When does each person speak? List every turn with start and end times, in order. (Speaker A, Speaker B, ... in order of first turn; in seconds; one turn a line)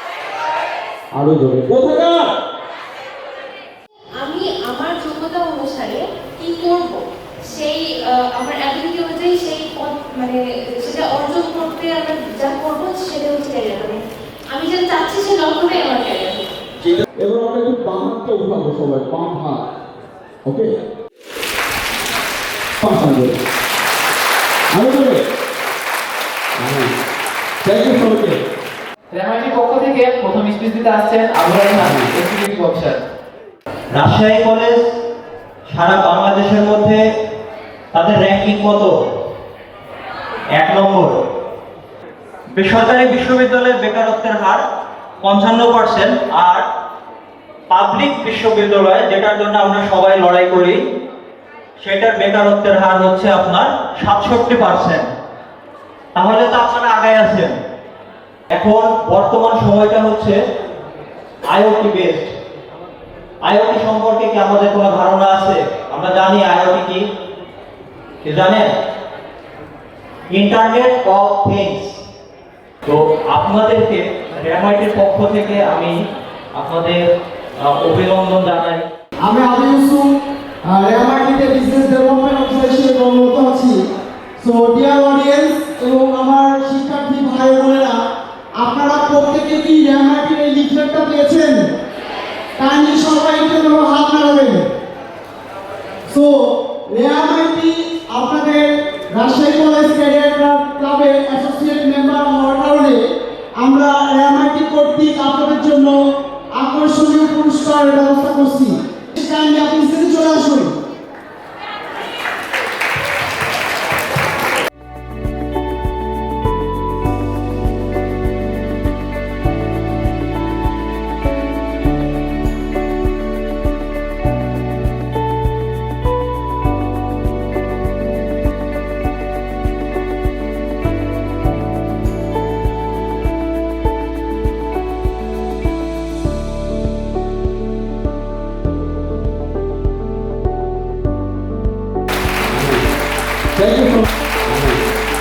Speaker A: 1.1-2.3
Speaker B: 4.2-14.0
Speaker B: 14.5-16.5
Speaker A: 16.8-19.6
Speaker A: 20.4-20.7
Speaker A: 22.8-23.4
Speaker A: 24.7-25.2
Speaker A: 26.6-26.9
Speaker A: 27.6-28.4
Speaker C: 29.1-33.0
Speaker A: 31.8-32.1
Speaker D: 33.9-34.8
Speaker D: 35.7-37.0
Speaker D: 37.9-38.9
Speaker D: 40.5-41.1
Speaker D: 42.5-44.6
Speaker D: 45.2-46.7
Speaker D: 47.7-50.8
Speaker D: 51.8-55.1
Speaker D: 56.1-57.5
Speaker D: 58.5-60.4
Speaker D: 61.5-62.3
Speaker D: 63.4-67.0
Speaker D: 68.2-68.7
Speaker D: 70.3-72.0
Speaker D: 72.8-76.0
Speaker D: 76.5-77.0
Speaker D: 77.6-78.8
Speaker E: 79.2-80.1
Speaker E: 80.7-83.8
Speaker E: 84.4-88.0
Speaker E: 88.6-91.6
Speaker E: 92.6-94.7
Speaker E: 96.1-103.0
Speaker E: 103.6-106.0
Speaker E: 106.5-110.7
Speaker A: 142.5-142.8
Speaker A: 143.5-144.8